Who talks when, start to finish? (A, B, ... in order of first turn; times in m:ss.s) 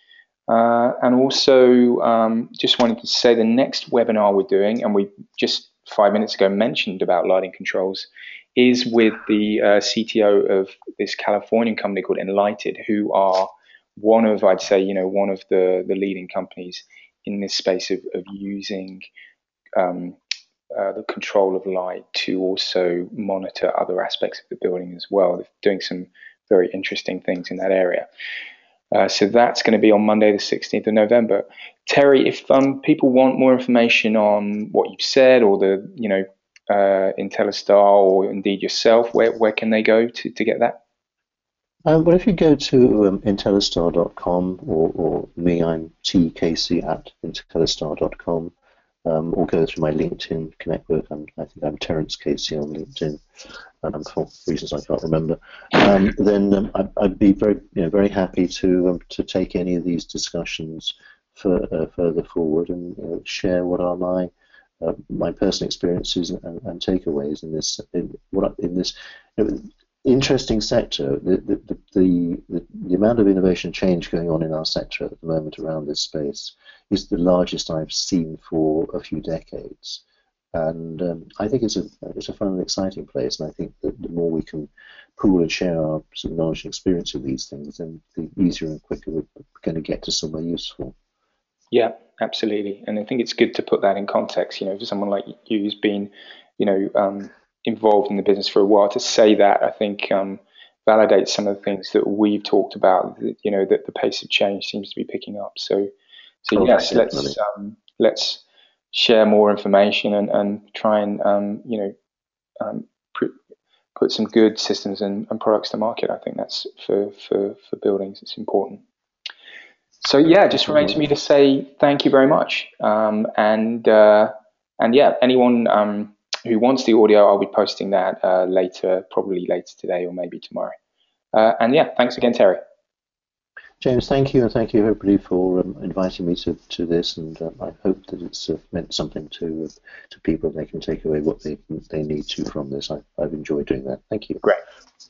0:00.5-0:19.0 A
0:19.8-0:20.2 A
0:20.7-0:28.1 A
0:28.9-0:40.8 A
0:41.9-0:48.5 B
0:49.0-0:53.2 B
0:53.8-1:20.0 B
1:20.5-1:31.0 B
1:31.7-1:45.9 A
1:46.4-1:52.0 A
1:46.6-1:47.4 B
1:52.6-1:53.4 A
1:54.0-1:58.8 A
2:00.0-2:10.7 A
2:00.5-2:01.0 B
2:11.3-2:12.6 A
2:13.8-2:24.4 B